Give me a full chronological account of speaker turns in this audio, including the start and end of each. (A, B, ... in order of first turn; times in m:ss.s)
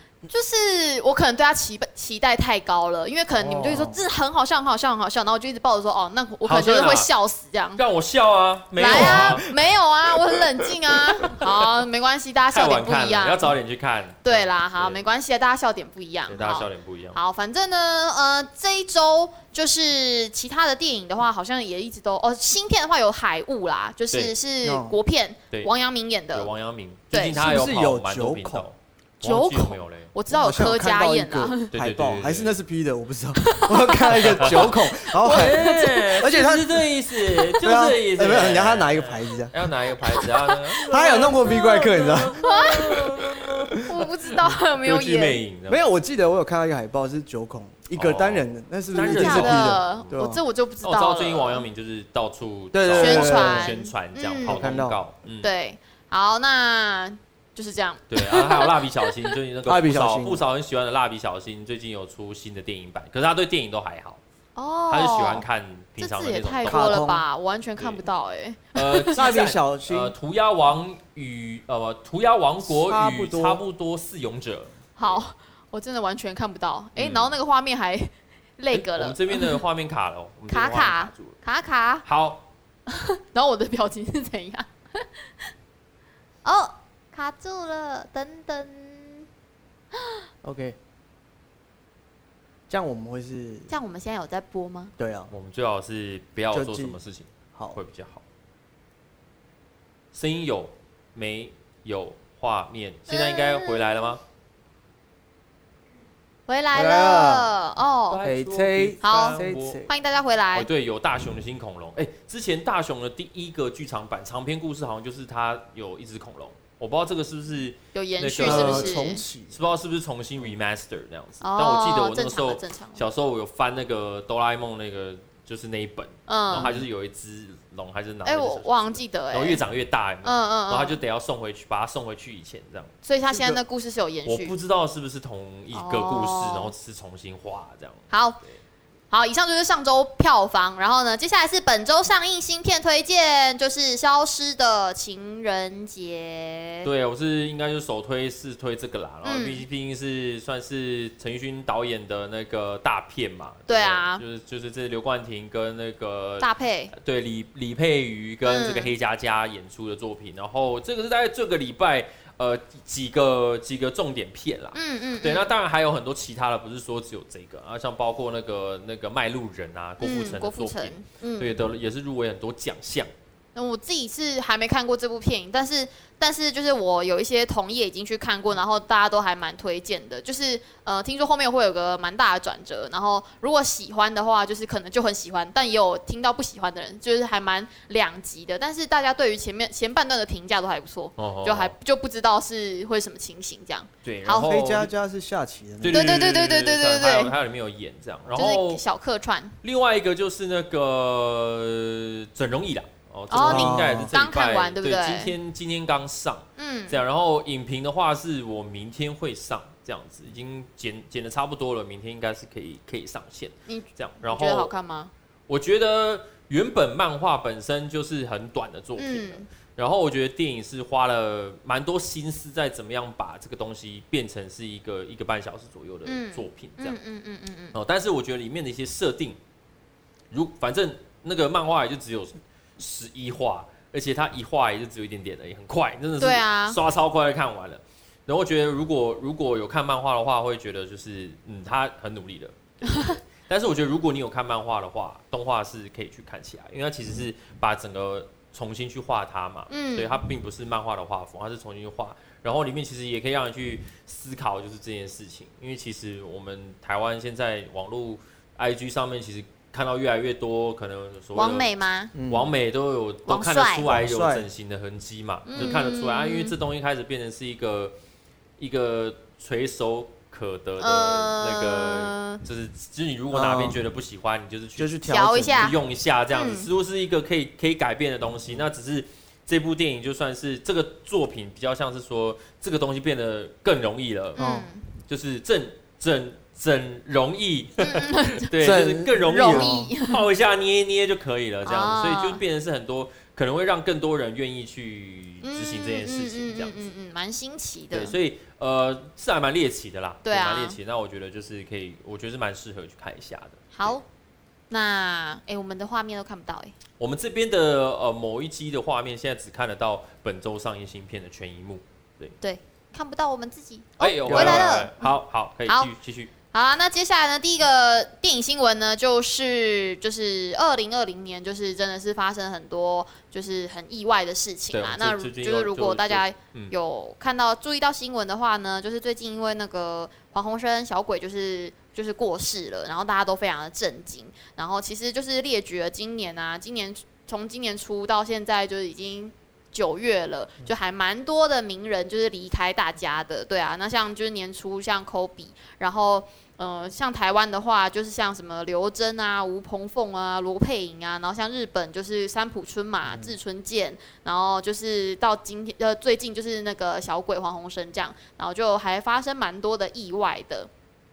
0:00.3-0:07.8 A
0:03.3-0:04.0 B
0:06.4-0:07.1 C
0:07.8-0:09.4 C
0:08.8-0:13.5 A
0:08.9-0:09.3 B
0:11.4-0:11.7 C
0:12.5-0:15.0 C
0:14.2-0:26.5 A
0:16.3-0:17.2 C
0:24.6-0:25.0 B
0:26.3-0:30.1 C
0:27.1-0:27.6 A
0:27.4-0:28.6 B
0:29.2-0:31.7 A
0:30.3-0:36.9 B
0:31.7-0:32.6 C
0:33.4-0:34.6 A
0:34.2-0:45.8 C
0:35.4-0:35.7 A
0:37.5-0:39.5 B
0:40.8-0:43.0 A
0:40.8-0:43.5 B
0:43.8-0:45.4 A
0:45.7-0:50.4 B
0:48.0-0:50.2 C
0:49.1-0:51.6 A
0:50.8-0:55.5 C
0:52.7-0:53.7 B
0:53.0-0:54.6 A
0:54.4-0:55.0 B
0:55.4-0:58.8 A
0:58.1-1:04.2 C
0:59.6-1:00.5 B
1:04.6-1:05.5 A
1:04.9-1:07.1 C
1:06.0-1:09.2 A
1:06.7-1:07.2 B
1:07.8-1:08.0 C
1:08.7-1:15.2 C
1:09.1-1:10.1 B
1:12.6-1:13.6 B
1:15.0-1:19.6 A
1:17.0-1:17.4 C
1:18.7-1:21.4 C
1:20.5-1:22.0 A
1:22.0-1:22.4 C
1:22.9-1:25.1 A
1:26.4-1:29.3 A
1:30.4-1:30.8 B
1:32.7-1:33.7 B
1:33.7-1:34.9 A
1:35.0-1:35.3 B
1:35.3-1:38.2 C
1:36.5-1:37.0 B
1:40.1-1:44.2 C
1:43.1-1:44.1 A
1:46.5-1:48.2 A
1:46.7-1:47.5 B
1:48.1-1:49.9 C
1:48.2-1:49.9 B
1:49.0-1:50.7 A
1:50.5-2:12.9 C
1:57.9-1:59.2 A
1:58.4-1:59.6 B
2:01.4-2:03.0 A
2:06.3-2:06.8 A
2:08.2-2:09.6 A
2:10.2-2:11.0 A
2:13.0-2:14.5 A
2:13.3-2:13.6 B
2:14.3-2:18.6 C
2:15.7-2:16.7 A
2:18.1-2:18.4 A
2:19.1-2:26.9 A
2:26.8-2:53.1 C
2:29.2-2:29.6 A
2:33.7-2:34.2 A
2:36.4-2:36.9 A
2:38.4-2:38.9 A
2:44.8-2:45.5 A
2:50.0-2:51.5 A
2:53.6-3:14.6 A
3:11.2-3:11.7 C
3:14.0-3:14.9 C
3:14.4-3:16.1 B
3:15.8-3:18.8 C
3:15.9-3:17.3 A
3:18.4-3:19.6 A
3:19.6-3:34.7 C
3:23.3-3:25.3 A
3:23.4-3:24.1 B
3:26.6-3:27.0 A
3:33.7-3:35.1 A
3:35.5-3:47.0 C
3:39.0-3:39.5 A
3:46.1-3:47.8 A
3:47.7-3:49.4 C
3:50.3-4:21.7 C
3:56.2-3:56.8 A
4:02.9-4:03.2 A
4:09.7-4:10.2 A
4:21.4-4:22.1 A
4:22.2-4:22.5 B
4:22.3-4:27.9 C
4:23.3-4:23.9 A
4:23.8-4:24.5 B
4:25.5-4:26.6 A
4:28.6-4:35.0 C
4:30.8-4:32.4 A
4:33.3-4:33.8 B
4:34.8-4:35.8 B
4:35.0-4:35.8 A
4:35.6-4:44.4 C
4:36.3-4:36.7 A
4:44.4-4:44.9 A
4:44.4-4:44.7 B
4:45.1-4:56.9 C
4:47.8-4:48.5 A
4:48.6-4:49.9 B
4:49.1-4:50.3 A
4:51.6-4:52.4 A
4:55.4-4:58.2 A
4:57.9-5:04.0 C
5:00.2-5:00.8 A
5:03.8-5:04.0 A
5:04.7-5:06.7 A
5:07.0-5:12.4 C
5:12.4-5:15.1 A
5:14.0-5:16.3 C
5:14.3-5:14.8 B
5:16.5-6:00.7 A
5:24.7-5:26.7 C